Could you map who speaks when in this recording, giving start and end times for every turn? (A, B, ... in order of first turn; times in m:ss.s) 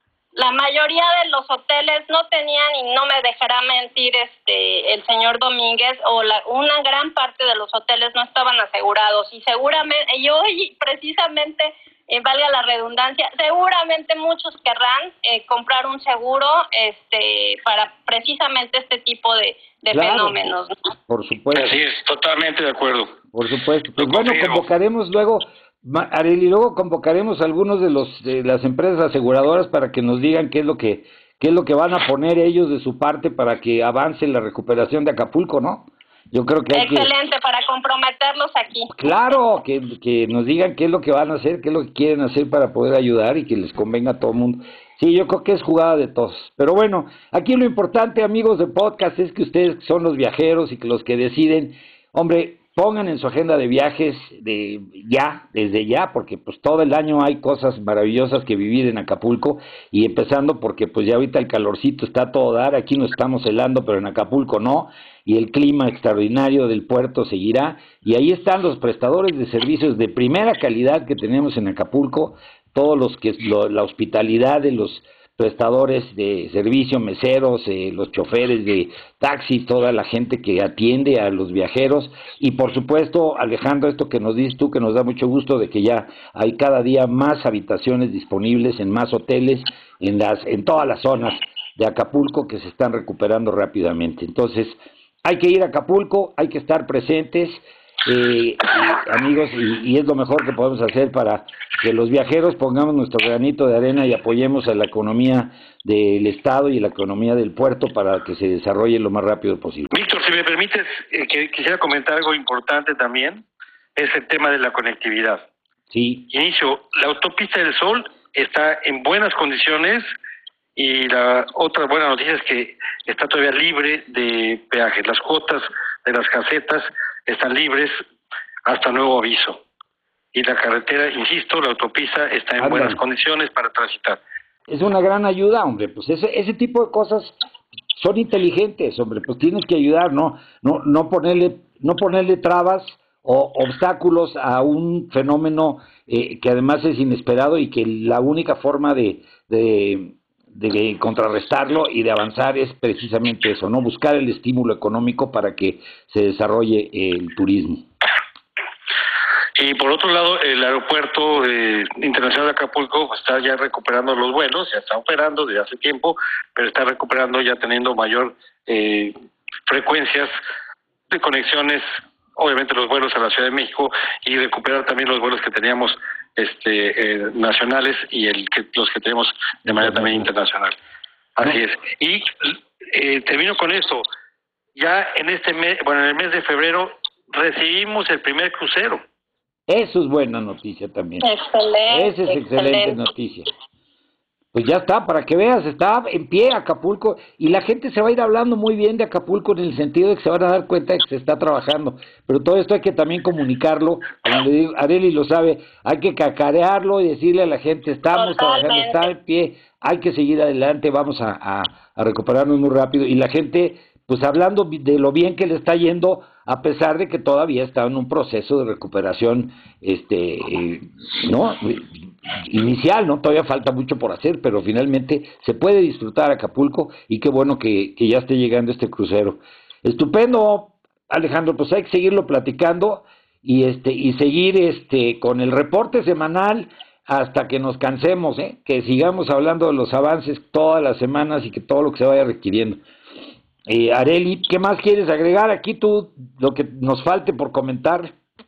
0:00.3-0:20.7 A
0:19.9-0:20.4 B
0:21.1-0:21.8 B
0:21.5-0:23.2 C
0:23.3-0:37.1 B
0:24.0-0:24.7 C
0:36.7-0:38.9 A
0:38.9-1:49.9 B
1:49.9-1:53.4 C
1:54.0-1:55.4 C
1:55.9-1:56.3 B
1:56.3-2:00.1 C
2:00.8-2:08.0 C
2:08.6-2:09.6 C
2:10.3-2:14.2 C
2:12.6-2:13.0 B
2:14.7-2:17.4 B
2:17.9-2:37.8 B
2:39.6-2:49.1 C
2:49.6-2:50.3 C
2:51.1-3:00.8 C
2:59.6-3:00.3 B
3:01.4-3:04.0 C
3:04.7-3:09.0 C
3:09.7-3:11.3 B
3:11.2-3:13.0 A
3:11.9-3:13.5 B
3:14.5-4:02.8 B
3:28.1-3:29.1 A
4:03.7-4:08.1 B